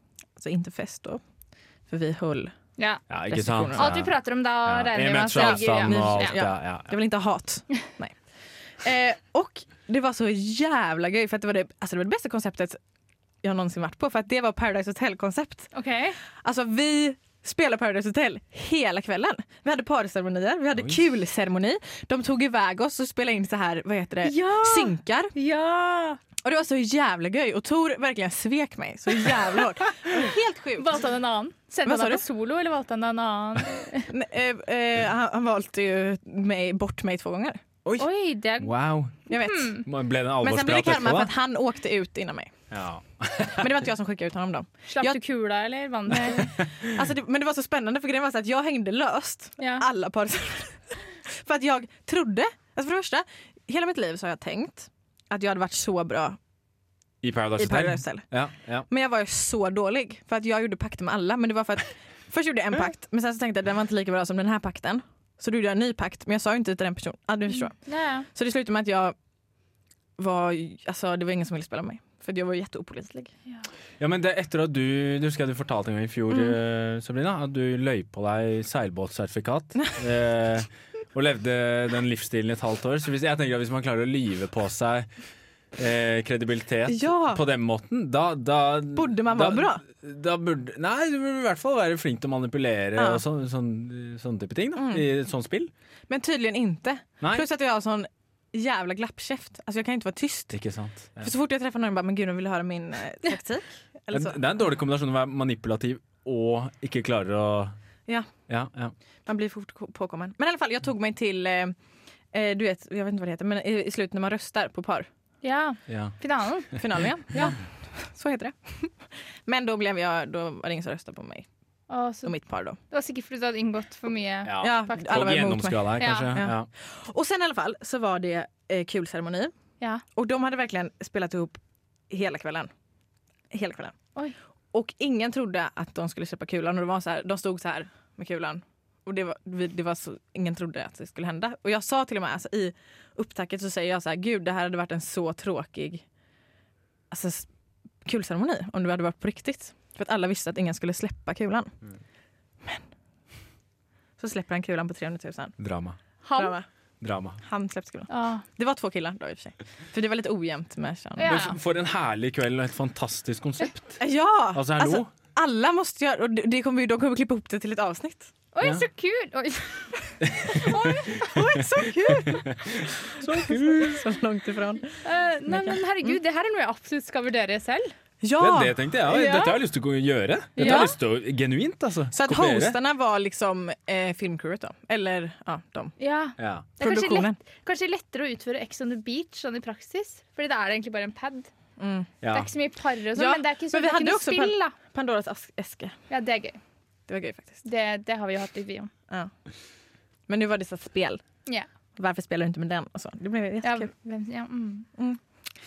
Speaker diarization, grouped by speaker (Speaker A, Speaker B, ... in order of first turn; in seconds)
Speaker A: 0.4-1.2, 1.9-2.5, 3.3-4.0, 5.4-8.2, 8.8-12.8, 13.4-15.7, 16.4-25.3, 26.4-30.9, 31.9-32.2, 34.1-37.6, 39.3-39.8, 40.4-42.5, 43.6-45.2, 46.4-56.4, 57.6-58.3, 58.9-69.2, 70.2-73.3, 86.9-87.4, 89.0-89.8, 93.0-93.2, 94.8-95.1, 96.1-100.6, 101.2-104.4, 109.3-111.8, 112.3-115.1, 116.8-121.5, 122.2-122.8, 124.6-129.5, 130.2-131.6, 132.1-132.7, 133.5-133.9, 134.7-146.0, 147.1-147.5, 148.1-151.7, 154.2-155.6, 156.4-156.7, 157.4-161.4, 164.0-168.3, 171.2-175.0, 175.5-176.2, 178.2-178.8, 180.6-180.9, 182.1-185.9, 186.8-187.4, 191.8-192.1, 193.2-195.9, 197.1-197.6, 200.3-201.2, 202.0-203.9
Speaker B: 3.1-4.1, 4.6-7.0, 37.9-39.2, 39.9-41.3, 42.7-43.7, 57.2-58.9, 74.0-85.1, 85.8-95.7, 97.2-97.5, 100.5-101.3, 104.1-107.8, 108.5-108.9, 115.9-116.2, 124.5-126.7, 155.6-156.0, 157.0-157.4, 161.2-164.0, 164.5-165.1, 170.3-170.7, 172.1-174.0, 178.4-182.8, 186.4-186.7, 192.2-192.5
Speaker C: 3.8-6.4, 15.7-16.2, 24.2-26.2, 30.8-34.1, 38.0-38.7, 39.3-39.8, 44.9-46.5, 67.9-68.3, 115.4-116.7, 121.9-122.3, 122.9-125.0, 126.0-126.3, 156.2-156.6, 158.1-158.4, 161.2-161.6, 168.5-171.3, 175.0-177.9, 179.1-179.6, 180.6-180.9, 186.0-191.5, 192.3-194.8, 196.1-196.6, 197.7-198.9, 203.6-204.9